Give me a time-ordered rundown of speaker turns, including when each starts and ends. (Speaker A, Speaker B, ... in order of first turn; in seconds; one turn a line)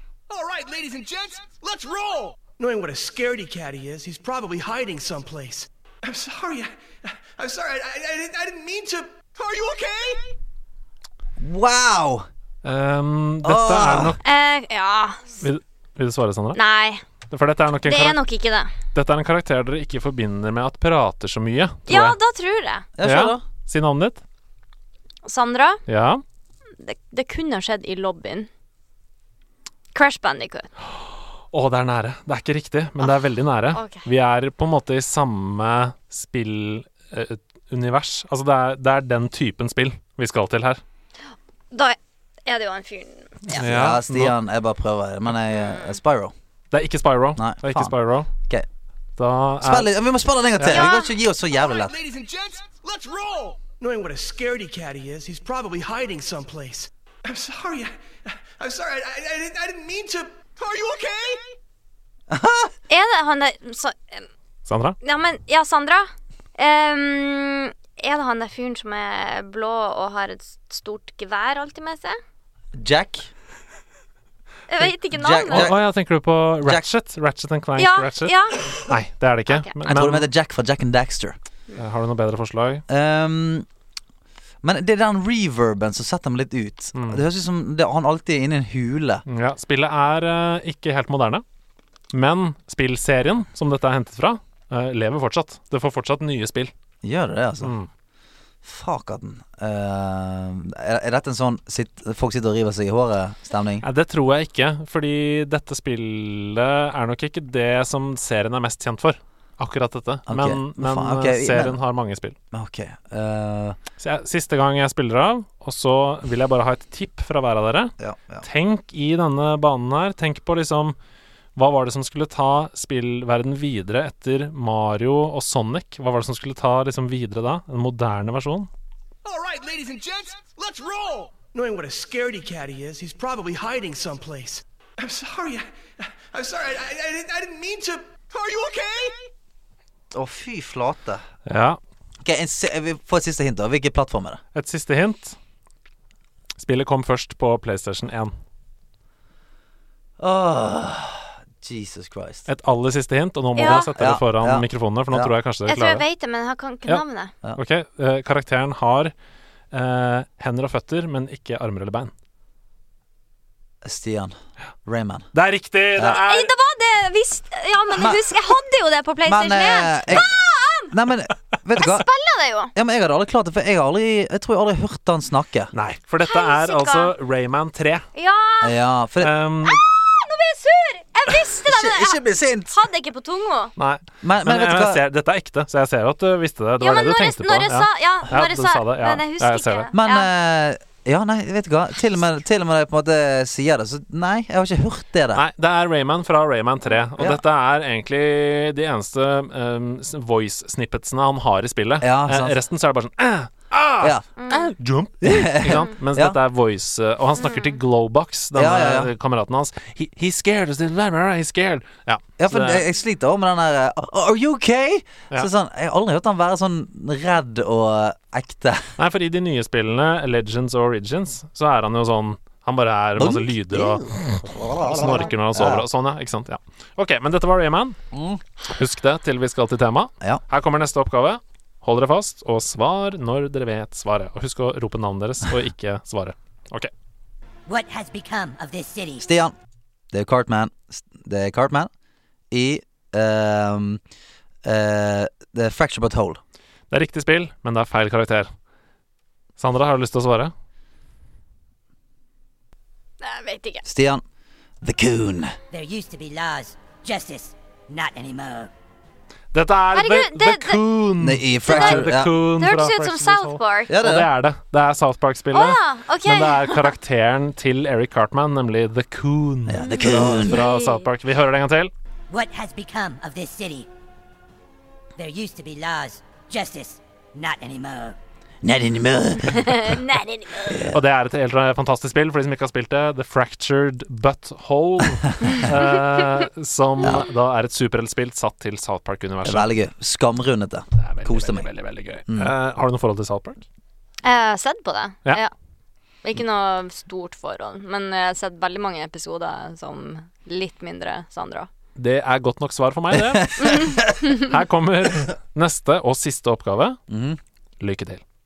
Speaker A: 0.3-10.3
Speaker B: 11.4-12.3
Speaker C: 12.6-14.2
Speaker B: 13.4-14.2
Speaker D: 14.2-15.4
Speaker C: 15.4-16.6
Speaker D: 16.5-17.0
Speaker C: 17.3-18.2
Speaker D: 17.8-18.7
Speaker C: 18.9-22.2
Speaker D: 21.9-22.9
Speaker B: 23.0-23.4
Speaker C: 23.0-24.2
Speaker D: 25.2-25.8
Speaker C: 25.9-26.2
Speaker D: 26.8-28.5
Speaker D: 29.9-30.7
Speaker C: 30.9-40.8
Speaker D: 33.7-34.0
Speaker D: 41.7-43.6
Speaker C: 43.5-44.4
Speaker B: 43.6-46.3
Speaker D: 45.5-45.9
Speaker C: 46.7-48.3
Speaker B: 47.4-48.6
Speaker C: 49.2-49.9
Speaker B: 49.6-51.9
Speaker C: 50.6-50.9
Speaker D: 50.7-51.1
Speaker A: 51.5-61.5
Speaker B: 62.3-62.7
Speaker D: 62.9-64.3
Speaker C: 64.7-65.0
Speaker D: 65.0-72.2
Speaker B: 72.7-73.3
Speaker D: 74.7-75.7
Speaker B: 75.1-75.8
Speaker C: 75.5-80.3
Speaker D: 77.8-78.8
Speaker B: 79.8-81.3
Speaker C: 81.8-82.8
Speaker B: 82.9-83.7
Speaker B: 84.6-89.2
Speaker C: 86.9-87.2
Speaker C: 89.3-91.4
Speaker C: 92.1-96.7
Speaker B: 97.0-97.7
Speaker C: 97.6-97.9
Speaker B: 98.6-103.8
Speaker C: 103.8-112.3
Speaker B: 110.3-111.8
Speaker B: 112.5-113.8
Speaker C: 114.0-121.0
Speaker B: 118.0-118.4
Speaker C: 121.5-128.7
Speaker A: 129.2-139.3
Speaker B: 140.1-141.2
Speaker C: 141.4-141.8
Speaker B: 142.2-144.4
Speaker C: 144.5-145.4
Speaker C: 146.6-148.3
Speaker B: 150.2-152.5
Speaker C: 152.5-156.0
Speaker D: 153.6-153.9
Speaker B: 153.6-155.3
Speaker D: 155.7-157.3
Speaker C: 157.6-159.1
Speaker C: 159.7-162.1
Speaker B: 163.8-164.3
Speaker B: 164.8-165.3
Speaker C: 165.3-166.5
Speaker D: 166.0-170.9
Speaker B: 167.9-168.3
Speaker B: 169.2-170.3
Speaker B: 170.9-172.1
Speaker D: 171.8-172.7
Speaker B: 172.7-175.7
Speaker C: 175.7-178.0
Speaker D: 176.2-177.1
Speaker D: 178.1-178.8
Speaker B: 178.6-179.3
Speaker C: 179.2-179.8
Speaker D: 179.7-183.7
Speaker B: 181.6-182.7
Speaker C: 183.8-189.9
Speaker B: 184.2-185.0
Speaker D: 186.8-190.3
Speaker B: 189.9-195.4
Speaker C: 195.3-212.8
Speaker B: 202.0-202.6
Speaker D: 204.4-204.7
Speaker B: 205.2-206.4
Speaker D: 207.4-207.8
Speaker B: 208.5-209.1
Speaker B: 212.4-218.9
Speaker C: 219.0-228.0
Speaker B: 223.2-225.8
Speaker B: 228.1-228.4
Speaker C: 228.7-236.9
Speaker E: 237.7-239.3
Speaker B: 239.2-239.5
Speaker B: 240.1-241.9
Speaker B: 242.5-244.0
Speaker B: 244.6-246.4
Speaker C: 246.9-248.5
Speaker C: 249.6-250.5
Speaker D: 253.2-253.8
Speaker B: 253.8-254.2
Speaker B: 254.8-255.6
Speaker E: 255.7-258.7
Speaker C: 259.5-271.9
Speaker D: 259.9-260.8
Speaker B: 261.2-262.3
Speaker D: 261.7-263.9
Speaker B: 263.9-264.3
Speaker D: 265.5-266.9
Speaker B: 269.7-270.6
Speaker D: 269.9-271.1
Speaker E: 272.3-273.9
Speaker E: 275.2-278.1
Speaker B: 278.6-280.0
Speaker D: 279.5-280.9
Speaker B: 280.6-281.0
Speaker C: 280.9-289.7
Speaker B: 289.4-291.7
Speaker C: 290.9-293.6
Speaker B: 292.3-292.5
Speaker D: 294.2-295.5
Speaker D: 296.2-301.7
Speaker C: 302.0-307.0
Speaker B: 303.1-303.9
Speaker B: 307.1-307.4
Speaker C: 307.8-308.2